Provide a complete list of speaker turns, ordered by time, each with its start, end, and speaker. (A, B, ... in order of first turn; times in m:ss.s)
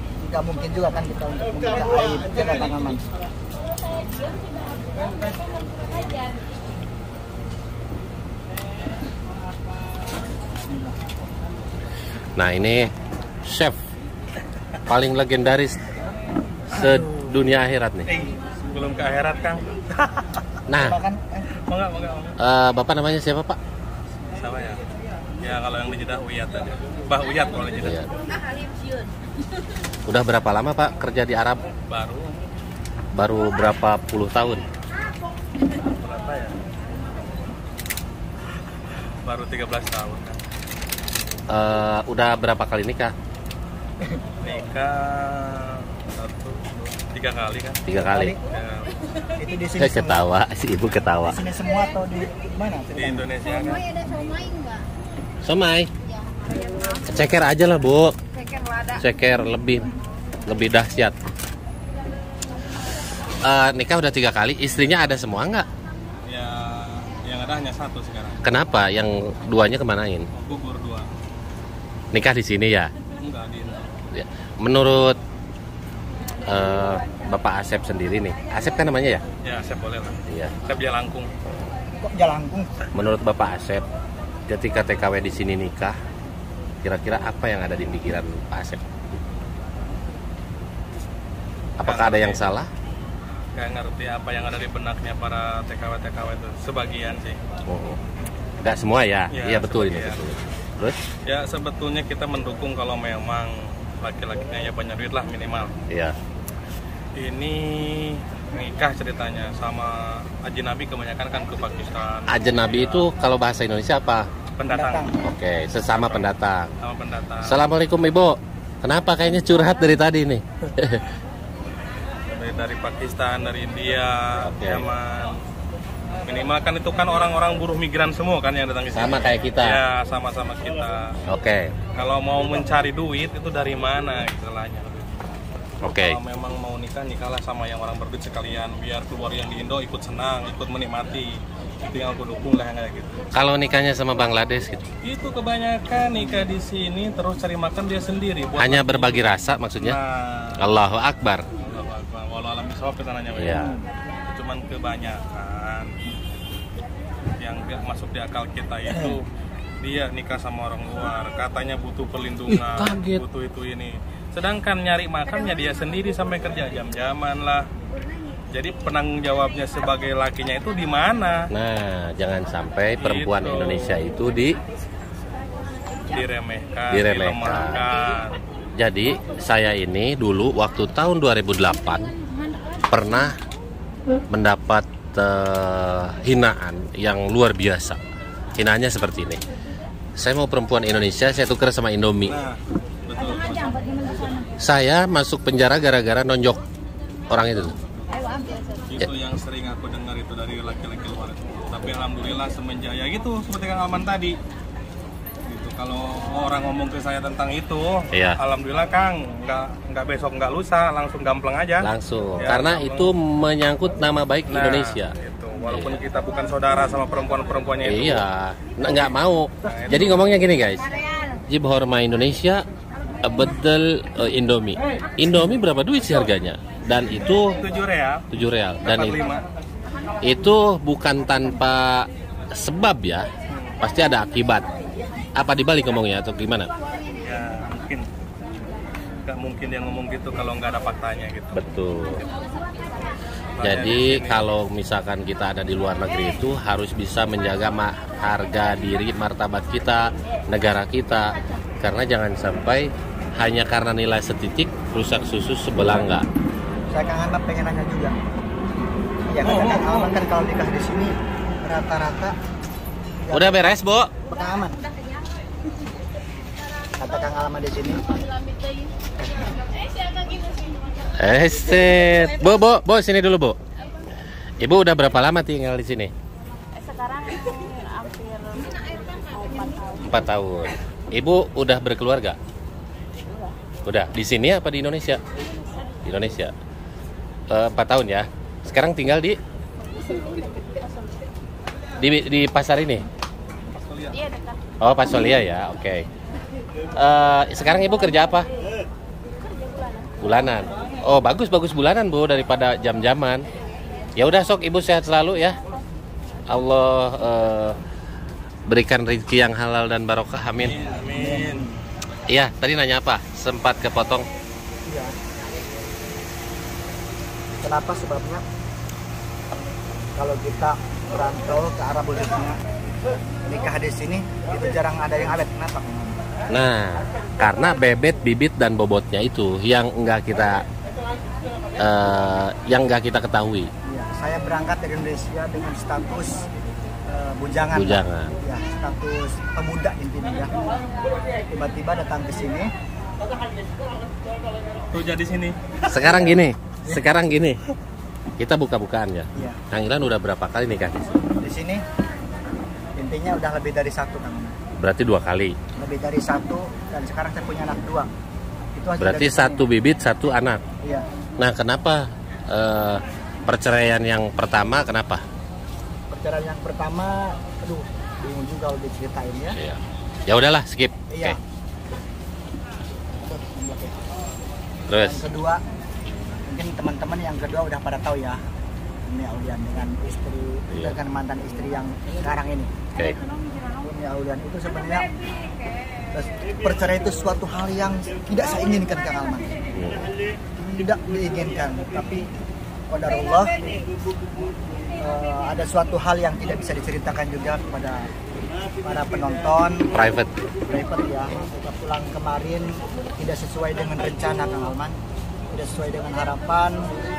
0:00.2-0:03.0 A
0:12.4-0:12.9 B
0:13.4-0:13.8 B
0:14.8-0:15.8 B
0:16.7-0:18.1 B
0:16.9-0:17.2 A
0:18.1-0:20.4 C
0:20.7-0:21.0 B
0:20.7-0:21.6 A
0:21.6-0:22.4 C
0:22.4-0:23.6 B
0:24.4-0:24.8 C
0:25.4-0:28.0 C
0:27.8-0:28.1 B
0:30.1-0:31.6 B
0:31.9-0:32.4 C
0:33.2-0:34.6 B
0:35.7-0:36.6 C
0:39.2-0:40.4 C
0:41.5-0:43.1 B
0:44.4-0:47.8 C
0:47.9-0:48.4 B
0:48.1-0:48.4 A
0:48.5-0:49.0 C
0:49.4-0:50.3 A
0:49.8-0:51.4 B
0:51.2-0:53.3 A
0:52.9-0:53.9 C
0:55.4-0:55.9 B
0:57.0-0:58.2 B
0:58.9-0:59.9 B
1:00.5-1:01.2 B
1:03.4-1:05.7 B
1:06.3-1:08.4 C
1:08.4-1:10.3 B
1:10.4-1:11.1 C
1:12.1-1:12.9 B
1:13.2-1:14.0 C
1:14.1-1:15.2 B
1:16.5-1:19.2 B
1:19.4-1:21.3 C
1:20.3-1:20.6 B
1:22.0-1:22.7 A
1:22.9-1:23.8 B
1:24.5-1:26.0 B
1:26.8-1:28.8 B
1:31.8-1:32.7 B
1:31.8-1:32.4 C
1:33.6-1:37.4 C
1:37.7-1:38.0 B
1:38.6-1:41.0 B
1:39.3-1:40.2 C
1:41.2-1:45.7 C
1:45.9-1:46.2 B
1:47.2-1:53.1 C
1:52.3-1:54.3 B
1:54.6-1:55.2 C
1:54.7-1:55.2 A
1:55.2-1:56.7 B
1:55.9-1:57.7 C
1:57.4-2:01.0 B
2:02.3-2:05.4 C
2:04.4-2:04.9 B
2:06.2-2:11.2 C
2:08.9-2:09.8 B
2:11.3-2:11.7 B
2:12.0-2:15.2 C
2:15.8-2:16.2 B
2:16.0-2:23.2 C
2:23.3-2:24.9 B
2:25.0-2:30.6 C
2:28.6-2:30.0 B
2:30.6-2:31.4 B
2:31.6-2:33.7 C
2:33.3-2:33.7 B
2:34.3-2:35.9 C
2:37.4-2:39.3 C
2:39.8-2:47.7 C
2:42.5-2:43.2 B
2:48.5-2:51.5 C
2:51.5-2:54.6 B
2:53.0-2:54.1 C
2:56.1-2:58.4 C
2:56.9-2:57.9 B
2:58.8-3:02.2 B
3:02.9-3:03.4 B
3:04.3-3:08.0 B
3:08.6-3:09.4 B
3:10.2-3:12.4 B
3:12.3-3:14.4 C
3:14.6-3:16.6 B
3:17.3-3:17.8 B
3:18.9-3:24.4 C
3:25.5-3:33.1 C
3:28.1-3:28.4 B
3:31.8-3:35.1 B
3:34.5-3:38.2 C
3:35.7-3:36.0 B
3:37.8-3:40.9 B
3:39.6-3:40.2 C
3:41.5-3:42.6 B
3:43.2-3:47.6 B
3:47.4-3:48.3 C
3:48.3-3:49.2 B
3:48.8-3:49.4 C
3:50.2-3:53.3 B
3:53.5-3:53.8 C
3:53.8-3:54.7 B
3:55.4-3:56.7 B
3:57.2-3:58.1 C
3:59.2-4:01.6 C
4:01.5-4:02.3 B
4:03.6-4:04.5 C
4:03.6-4:16.3 B
4:16.9-4:18.2 A
4:19.3-4:22.4 A
4:19.5-4:20.1 C
4:23.2-4:24.8 A
4:23.3-4:24.1 B
4:27.0-4:28.0 A
4:31.2-4:33.6 B
4:34.6-4:36.1 B
4:37.1-4:38.8 D
4:39.4-4:39.9 D
4:40.0-4:42.4 B
4:43.8-4:45.2 B
4:46.0-4:46.5 B
4:47.5-4:49.4 B
4:52.0-4:53.1 B
4:53.7-4:54.4 C
4:54.8-4:56.1 B
4:57.0-4:58.5 B
5:00.2-5:03.5 B
5:04.2-5:05.6 B
5:06.5-5:07.8 B
5:08.7-5:10.8 B
5:10.6-5:11.7 C
5:11.1-5:11.8 A
5:12.3-5:14.3 B
5:14.9-5:15.1 A
5:17.6-5:18.4 A
5:20.2-5:22.6 A
5:23.4-5:26.2 A
5:26.5-5:30.6 B
5:31.8-5:33.7 B
5:33.9-5:36.4 A
5:37.1-5:40.5 A
5:37.8-5:38.4 B
5:41.5-5:42.7 A
5:44.9-5:45.6 C
5:45.9-5:47.6 B
5:45.9-5:47.0 A
5:48.4-5:51.2 B
5:49.4-5:49.6 A
5:51.4-5:51.8 A
5:53.0-5:54.5 A
5:54.8-5:55.6 B
5:55.8-5:58.1 A
5:58.8-5:59.6 A
5:59.0-6:00.6 B
6:01.4-6:05.2 B
6:06.1-6:09.6 A
6:09.6-6:11.4 B
6:11.1-6:11.4 A
6:13.2-6:14.0 A
6:14.9-6:15.3 B
6:15.0-6:15.6 A
6:16.5-6:18.4 A
6:19.1-6:22.7 A
6:23.8-6:25.1 A
6:26.1-6:29.6 A
6:29.7-6:30.1 B
6:30.6-6:32.3 A
6:32.9-6:33.8 A
6:35.0-6:38.1 A
6:38.8-6:39.9 A
6:39.9-6:40.3 B
6:40.7-6:45.0 A
6:45.5-6:46.8 A